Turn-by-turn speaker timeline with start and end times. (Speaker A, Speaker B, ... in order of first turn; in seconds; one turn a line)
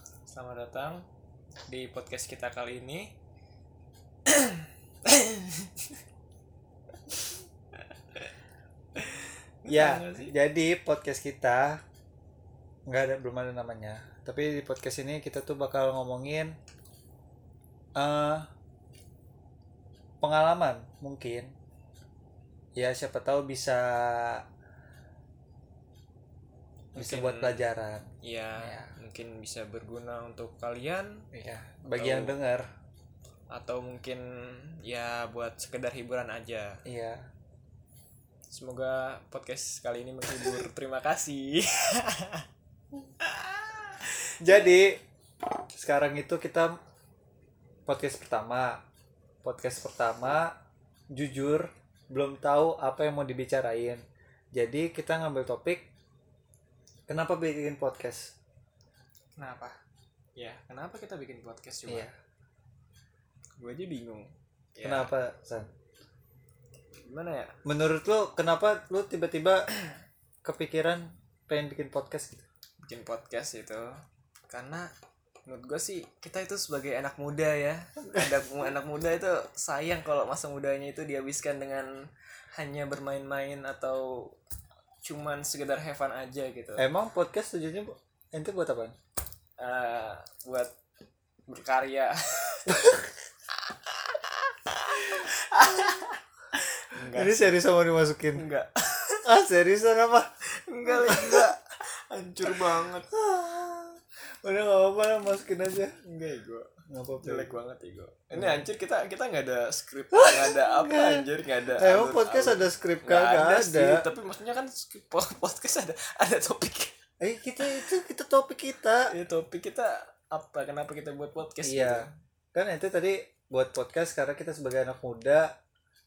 Speaker A: 0.3-1.0
Speaker A: 1.7-3.1
Speaker A: 4.3-6.0
Speaker A: 7.7-8.3
Speaker A: 8.9-10.3
Speaker B: 9.7-11.8
Speaker B: 12.9-16.5
Speaker B: 17.9-18.5
Speaker B: 20.2-21.5
Speaker B: 22.8-24.4
Speaker B: 26.9-28.1
Speaker A: 26.9-27.6
Speaker A: 28.2-31.3
Speaker B: 28.6-28.9
Speaker B: 31.3-32.7
Speaker A: 31.9-32.4
Speaker A: 33.5-36.8
Speaker B: 36.8-37.3
Speaker A: 38.5-42.4
Speaker A: 43.2-44.7
Speaker B: 44.4-45.0
Speaker B: 45.7-46.8
Speaker B: 47.9-48.8
Speaker B: 49.4-50.5
Speaker B: 51.1-55.9
Speaker B: 57.1-58.3
Speaker A: 59.4-59.8
Speaker A: 60.4-62.1
Speaker B: 61.9-62.1
Speaker A: 63.6-65.1
Speaker B: 64.8-65.7
Speaker A: 67.0-67.5
Speaker B: 67.6-69.7
Speaker B: 70.4-72.4
Speaker A: 72.8-73.9
Speaker A: 74.5-74.9
Speaker A: 75.5-84.3
Speaker A: 85.0-86.9
Speaker B: 86.8-88.9
Speaker A: 89.6-90.7
Speaker A: 91.5-93.0
Speaker B: 92.7-93.0
Speaker A: 93.7-97.6
Speaker B: 95.0-96.0
Speaker B: 97.1-98.4
Speaker A: 98.3-99.2
Speaker B: 99.2-100.3
Speaker A: 100.5-103.1
Speaker B: 100.8-101.5
Speaker B: 102.5-105.9
Speaker A: 106.0-106.7
Speaker B: 106.9-107.5
Speaker A: 107.2-117.0
Speaker B: 108.3-108.7
Speaker B: 110.1-111.2
Speaker B: 111.8-114.0
Speaker B: 117.2-119.1
Speaker A: 119.1-122.1
Speaker B: 121.6-125.5